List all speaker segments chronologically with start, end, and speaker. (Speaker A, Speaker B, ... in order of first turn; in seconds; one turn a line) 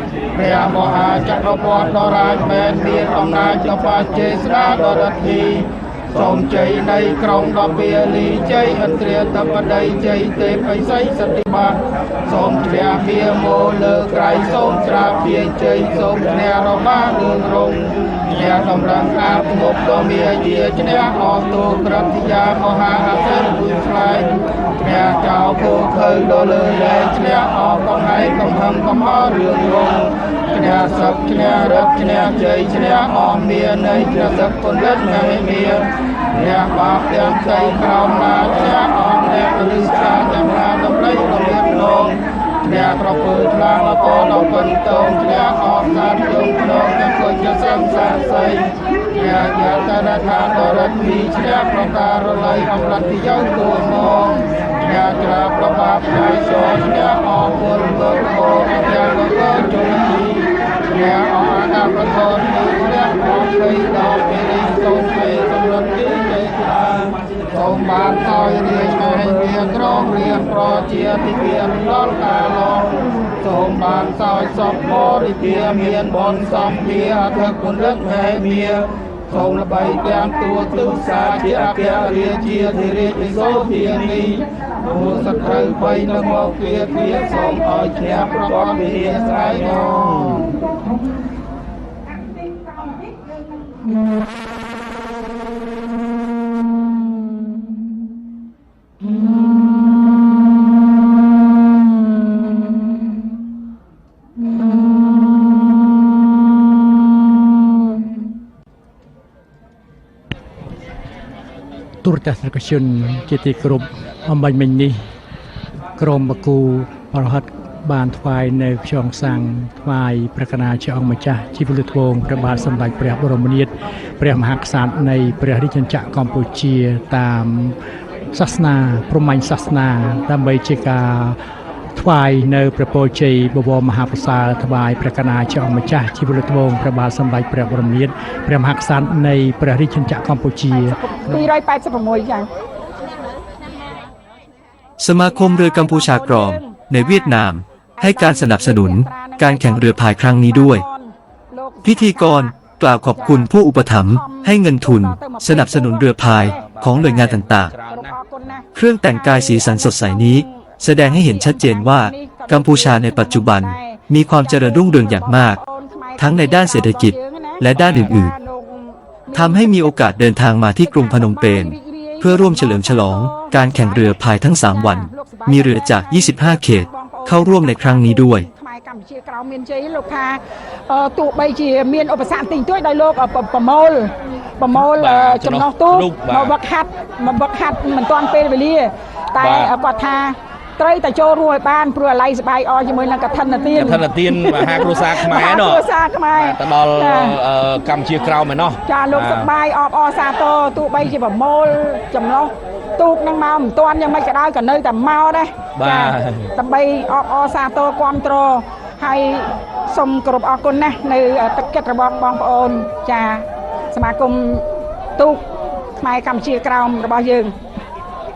Speaker A: 0.3-90.4
Speaker B: 112.0-115.0
Speaker B: 116.0-127.8
Speaker B: 128.3-131.4
Speaker B: 131.9-141.5
Speaker C: 140.7-142.5
Speaker D: 145.0-150.8
Speaker C: 145.2-147.4
Speaker C: 148.0-152.5
Speaker D: 151.8-157.7
Speaker C: 153.1-170.1
Speaker E: 156.1-158.2
Speaker D: 158.7-165.6
Speaker D: 166.2-168.3
Speaker E: 167.7-168.2
Speaker D: 169.3-178.5
Speaker C: 170.8-197.4
Speaker E: 184.7-186.5
Speaker E: 189.4-189.7
Speaker E: 193.7-195.8
Speaker E: 196.3-199.5
Speaker C: 198.8-214.7
Speaker E: 205.8-206.5
Speaker C: 215.2-215.4
Speaker C: 216.0-217.5